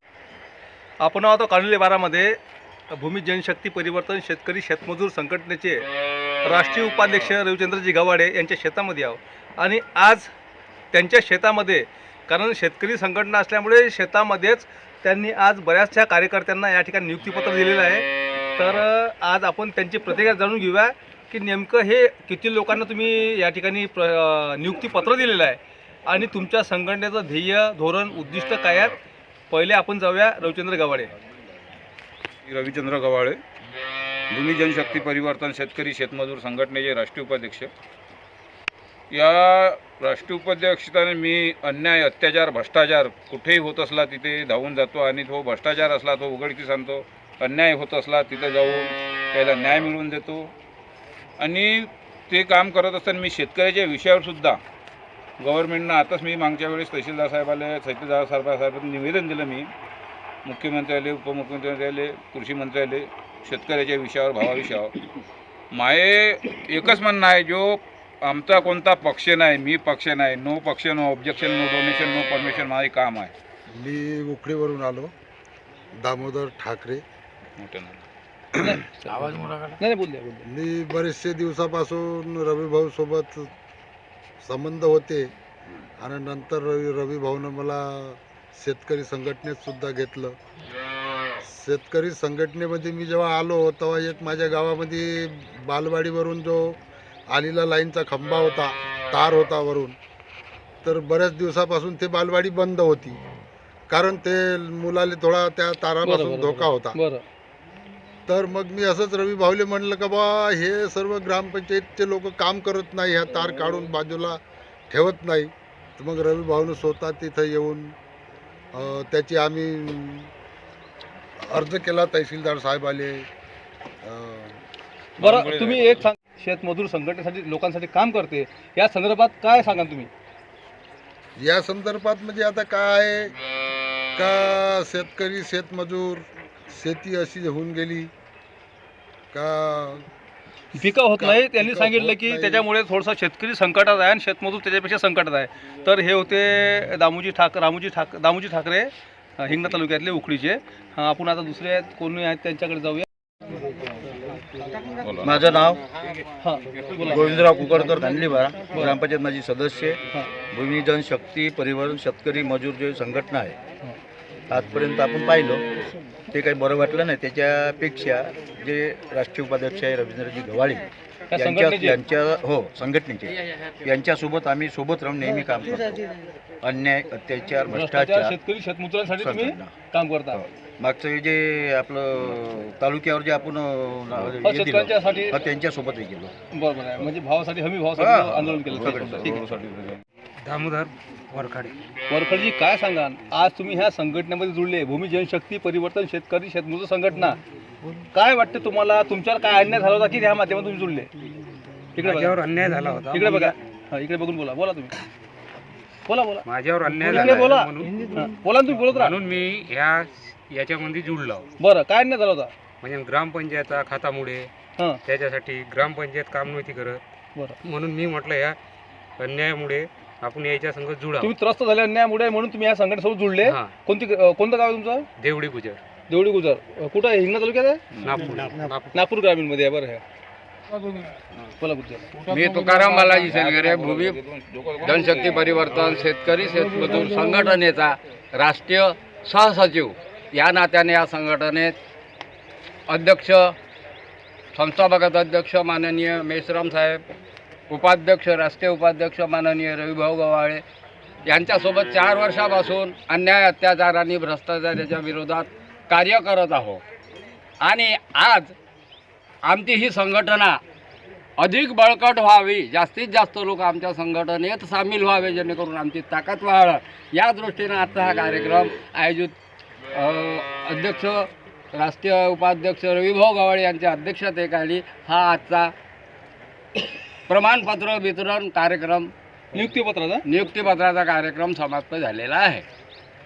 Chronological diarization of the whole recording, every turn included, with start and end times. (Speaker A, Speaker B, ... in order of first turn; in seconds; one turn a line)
Speaker A: 1.0-2.4
Speaker A: 2.9-5.8
Speaker A: 6.4-10.3
Speaker A: 10.9-18.1
Speaker A: 18.6-28.9
Speaker A: 29.5-31.1
Speaker B: 32.5-33.4
Speaker B: 34.3-37.7
Speaker B: 39.1-50.5
Speaker B: 51.4-54.6
Speaker B: 55.4-59.7
Speaker B: 60.4-64.9
Speaker B: 65.7-73.3
Speaker C: 73.7-75.1
Speaker C: 76.0-77.0
Speaker B: 77.6-78.0
Speaker A: 78.6-80.5
Speaker C: 80.5-83.5
Speaker C: 84.4-85.3
Speaker C: 86.0-90.4
Speaker C: 91.4-96.8
Speaker C: 97.3-100.0
Speaker C: 100.8-103.2
Speaker C: 103.9-107.0
Speaker A: 106.0-107.2
Speaker C: 108.3-117.9
Speaker C: 118.7-120.3
Speaker C: 121.4-123.3
Speaker C: 124.0-124.6
Speaker B: 125.2-126.0
Speaker A: 125.2-130.1
Speaker C: 131.4-133.3
Speaker C: 134.2-138.1
Speaker C: 139.3-140.1
Speaker A: 140.8-153.1
Speaker C: 140.8-142.6
Speaker B: 155.0-155.3
Speaker D: 155.2-155.8
Speaker A: 156.4-157.2
Speaker D: 157.1-163.6
Speaker A: 158.7-159.0
Speaker D: 164.5-165.6
Speaker D: 166.3-176.1
Speaker A: 171.3-172.0
Speaker D: 176.6-178.4
Speaker A: 177.7-180.4
Speaker D: 179.1-179.7
Speaker D: 180.3-186.3
Speaker A: 184.4-185.4
Speaker A: 186.5-189.4
Speaker D: 188.0-189.6
Speaker B: 188.8-190.0
Speaker E: 190.4-191.8
Speaker A: 192.1-197.4
Speaker A: 198.1-201.1
Speaker A: 201.9-202.3
Speaker E: 202.0-203.5
Speaker A: 203.1-204.9
Speaker A: 206.1-209.1
Speaker E: 206.4-207.9
Speaker E: 208.8-211.4
Speaker A: 211.6-212.5
Speaker E: 212.8-214.5
Speaker E: 215.1-217.0
Speaker E: 217.6-218.6
Speaker E: 219.2-221.3
Speaker A: 221.2-225.1
Speaker E: 223.4-223.7
Speaker E: 225.2-225.8
Speaker A: 226.1-227.8
Speaker B: 227.9-228.3
Speaker E: 228.0-229.0
Speaker A: 228.9-230.0
Speaker A: 231.6-234.1
Speaker F: 232.3-234.0
Speaker B: 233.2-235.8
Speaker F: 235.0-237.9
Speaker A: 235.7-239.7
Speaker F: 238.5-241.7
Speaker F: 242.9-243.4
Speaker A: 243.0-243.3
Speaker F: 244.5-247.0
Speaker A: 244.7-245.0
Speaker F: 247.7-250.6
Speaker F: 251.3-256.8
Speaker A: 252.7-253.0
Speaker A: 254.6-255.4
Speaker F: 257.6-258.4
Speaker A: 258.1-258.5
Speaker F: 259.5-260.5
Speaker A: 259.8-260.6
Speaker F: 261.4-269.2
Speaker A: 261.7-265.0
Speaker A: 266.0-266.6
Speaker A: 267.5-269.3
Speaker A: 269.9-271.0
Speaker F: 270.2-271.1
Speaker A: 271.8-275.7
Speaker F: 272.0-275.6
Speaker A: 277.3-282.6
Speaker F: 277.3-278.8
Speaker F: 280.8-282.0